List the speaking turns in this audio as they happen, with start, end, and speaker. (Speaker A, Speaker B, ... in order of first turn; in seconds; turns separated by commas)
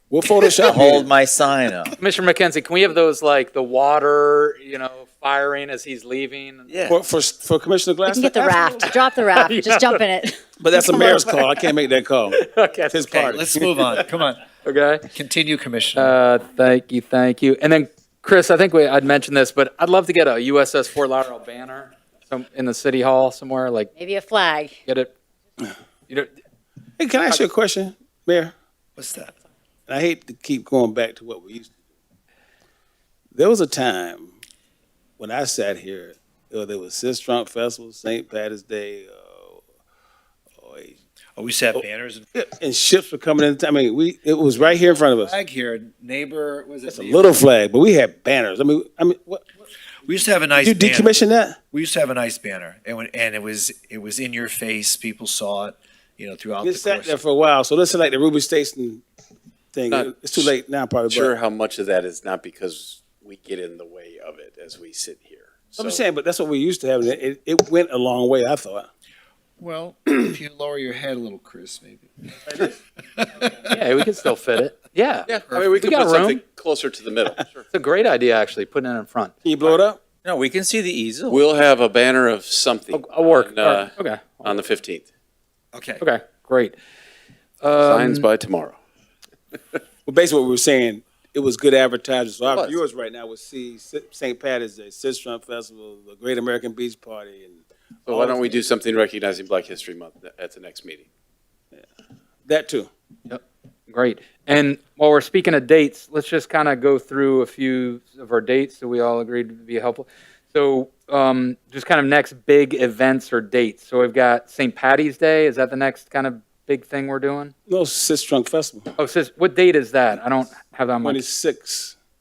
Speaker A: 0.1-1.1, Speaker B: 0.5-2.0, Speaker C: 2.0-6.7, Speaker B: 6.7-7.0, Speaker A: 6.9-8.9, Speaker D: 8.1-11.4, Speaker C: 9.3-10.0, Speaker A: 10.6-13.9, Speaker C: 12.3-13.3, Speaker E: 13.1-14.4, Speaker C: 14.6-15.1, Speaker E: 15.1-16.1, Speaker C: 15.9-23.9, Speaker D: 23.9-24.8, Speaker C: 24.9-25.1, Speaker A: 27.0-28.5, Speaker E: 29.0-29.3, Speaker A: 29.9-31.7, Speaker A: 33.3-34.3, Speaker A: 35.2-39.6, Speaker A: 40.6-40.9, Speaker E: 41.4-42.2, Speaker A: 42.3-45.4, Speaker E: 44.9-47.3, Speaker A: 46.9-49.4, Speaker E: 50.1-51.2, Speaker A: 50.6-51.6, Speaker E: 51.7-57.2, Speaker A: 56.6-59.0, Speaker A: 59.7-61.3, Speaker F: 59.9-60.5, Speaker F: 61.1-66.0, Speaker A: 65.8-68.9, Speaker E: 69.6-72.5, Speaker E: 73.2-73.7, Speaker C: 73.6-76.4, Speaker F: 75.3-77.6, Speaker C: 77.7-79.3, Speaker A: 79.4-80.0, Speaker B: 80.2-81.5, Speaker F: 81.3-83.9, Speaker C: 82.9-84.6, Speaker F: 84.4-85.0, Speaker E: 85.7-86.0, Speaker C: 86.0-86.8, Speaker C: 87.6-88.3, Speaker F: 87.8-88.8, Speaker A: 90.1-98.7, Speaker F: 92.4-92.8, Speaker F: 98.1-101.1, Speaker A: 102.5-102.9, Speaker C: 103.3-117.5, Speaker A: 117.7-118.9, Speaker C: 119.0-121.2, Speaker A: 121.0-122.0